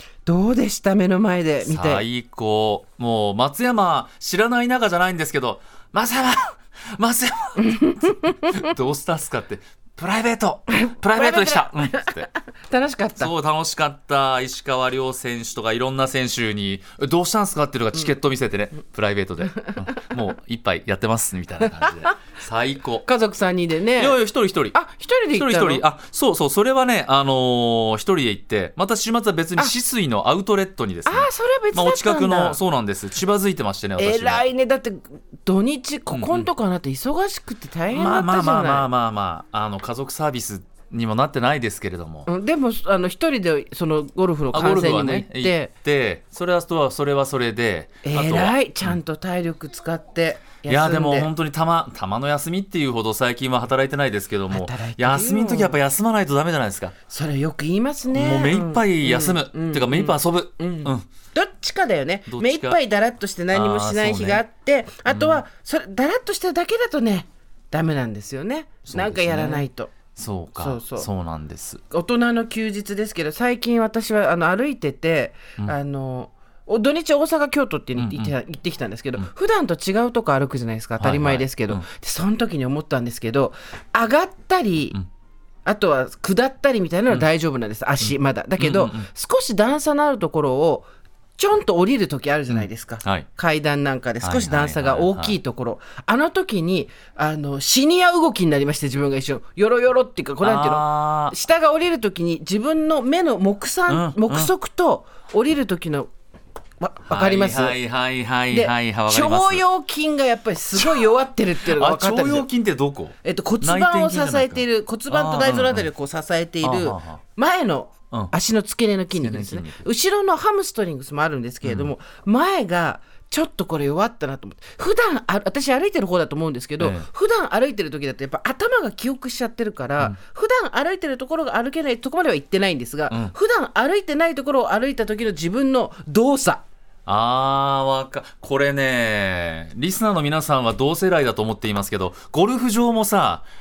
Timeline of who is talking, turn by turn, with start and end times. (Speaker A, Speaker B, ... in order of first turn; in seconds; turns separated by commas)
Speaker A: 0.3-2.0, Speaker B: 1.6-12.3, Speaker A: 7.7-8.5, Speaker A: 10.7-13.3, Speaker B: 13.2-23.1, Speaker A: 23.1-24.2, Speaker B: 24.0-24.8, Speaker A: 24.7-25.8, Speaker B: 25.3-34.5, Speaker A: 31.1-32.6, Speaker A: 34.0-38.9, Speaker B: 36.1-36.5, Speaker B: 37.9-42.3, Speaker A: 42.3-45.7, Speaker B: 44.5-49.0, Speaker A: 48.0-51.3, Speaker B: 50.7-56.9, Speaker A: 54.5-55.8, Speaker A: 57.1-69.9, Speaker B: 58.1-61.1, Speaker B: 62.3-62.8, Speaker B: 63.5-64.4, Speaker B: 65.1-65.4, Speaker B: 68.9-71.8, Speaker A: 70.6-71.1, Speaker A: 71.9-85.0, Speaker B: 78.0-78.3, Speaker B: 81.0-81.8, Speaker A: 85.7-90.9, Speaker B: 88.0-89.1, Speaker A: 91.4-106.1, Speaker B: 92.5-93.3, Speaker B: 94.2-95.4, Speaker B: 100.4-101.3, Speaker B: 103.9-104.5, Speaker A: 106.8-107.8, Speaker B: 107.1-109.6, Speaker A: 108.5-112.5, Speaker B: 110.8-111.1, Speaker B: 111.7-115.9, Speaker A: 113.2-136.6, Speaker B: 116.6-117.2, Speaker B: 119.1-119.8, Speaker B: 121.6-121.9, Speaker B: 126.8-127.1, Speaker B: 137.1-143.4